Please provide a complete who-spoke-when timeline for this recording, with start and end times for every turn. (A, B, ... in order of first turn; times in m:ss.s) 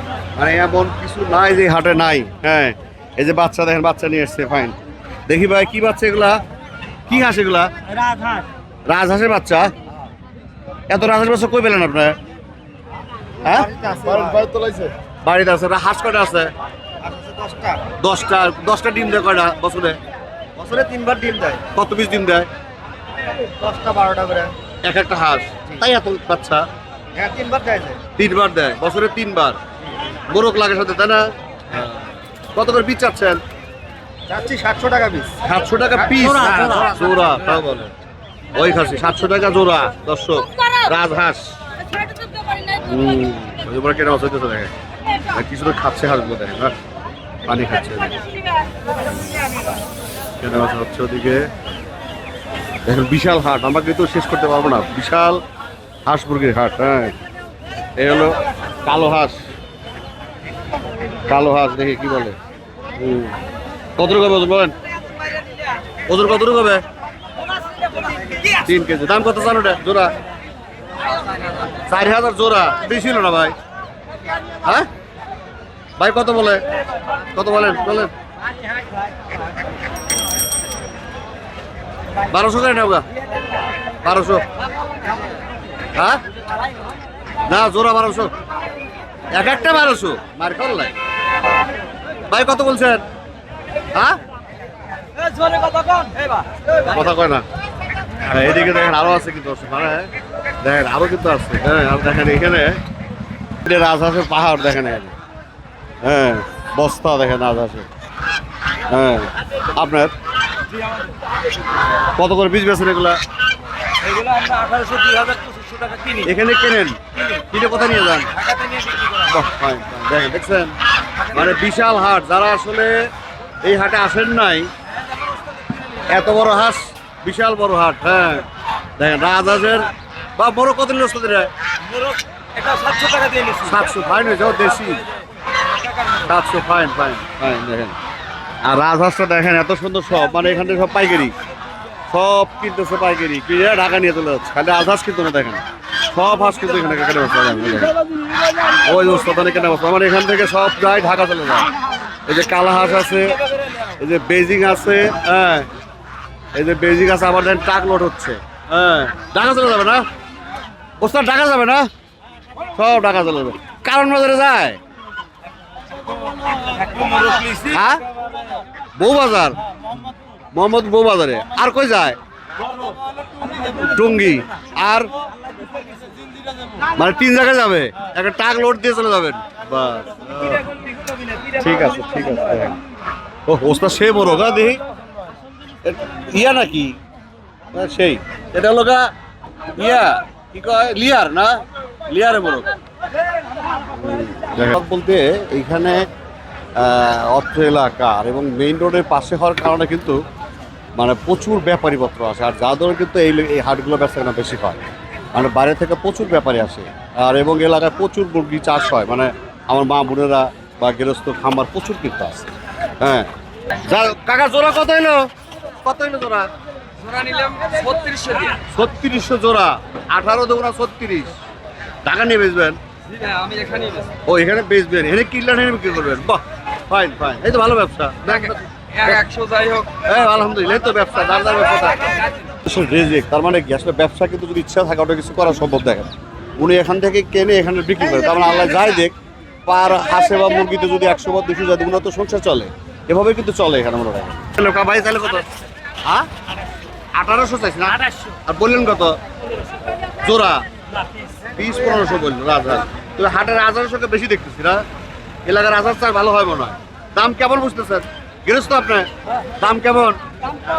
0:00.4-0:04.8 A
0:05.3-0:06.4 A
0:07.1-0:07.7 A
0:08.9-0:09.7 A
0:10.9-0:12.2 A
0:13.4-0:13.7 A
0:13.6-0:14.9 B
0:15.2-0:16.5 A
0:17.4-0:17.8 B
0:18.0-0:20.0 A
0:20.6-0:21.6 B
0:21.7-0:22.5 A
0:23.6-0:24.5 B
0:24.8-0:26.6 A
0:27.2-0:28.0 B
0:28.2-0:29.6 A
0:30.3-0:31.9 A
0:32.6-0:33.4 A
0:34.3-0:35.4 B
0:35.4-0:37.9 A
0:36.2-0:36.8 B
0:38.6-0:41.5 A
0:42.7-0:44.7 A
0:45.3-0:46.8 A
0:47.5-0:48.2 A
0:50.4-0:51.5 A
0:52.9-0:55.4 A
0:56.1-0:57.2 A
0:58.0-0:59.4 A
1:01.3-1:02.4 A
1:03.0-1:03.4 A
1:04.0-1:04.8 A
1:06.1-1:06.8 A
1:08.5-1:10.1 A
1:11.9-1:13.6 A
1:16.0-1:16.6 A
1:17.3-1:18.1 A
1:22.3-1:23.0 A
1:24.0-1:24.4 A
1:26.0-1:26.2 A
1:27.5-1:28.3 A
1:29.3-1:30.9 A
1:32.3-1:33.0 A
1:35.3-1:36.4 C
1:36.8-1:37.4 A
1:38.2-1:40.1 A
1:40.6-1:42.8 A
1:43.6-1:45.2 A
1:46.0-1:47.9 A
1:48.9-1:50.1 A
1:52.1-1:53.2 A
1:54.0-1:56.3 C
1:56.2-1:58.3 A
1:58.5-1:59.0 C
1:59.1-2:00.7 A
2:01.3-2:03.1 A
2:03.6-2:04.7 A
2:06.1-2:11.5 A
2:12.0-2:13.8 C
2:13.6-2:15.0 A
2:16.2-2:18.0 A
2:18.6-2:21.3 A
2:22.1-2:28.0 A
2:28.8-2:31.7 A
2:32.3-2:33.4 A
2:34.0-2:35.7 A
2:36.6-2:40.0 A
2:41.0-2:41.9 A
2:42.8-2:44.8 A
2:46.8-2:47.6 C
2:47.6-2:48.0 A
2:49.0-2:49.6 A
2:50.5-2:52.2 A
2:53.8-2:55.1 A
2:57.0-3:00.6 A
3:01.6-3:02.8 A
3:03.5-3:04.8 A
3:05.8-3:07.0 A
3:07.7-3:09.1 A
3:09.8-3:12.7 A
3:13.9-3:16.0 A
3:16.8-3:20.2 A
3:21.0-3:24.8 A
3:25.3-3:33.3 A
3:33.8-3:35.3 A
3:35.8-3:36.5 A
3:37.0-3:38.6 C
3:38.7-3:41.4 A
3:42.0-3:42.8 A
3:43.1-3:44.2 C
3:44.2-3:49.2 A
3:48.3-3:49.9 C
3:50.0-4:05.5 A
4:07.2-4:09.2 A
4:10.2-4:10.6 A
4:11.6-4:14.8 A
4:15.5-4:20.2 A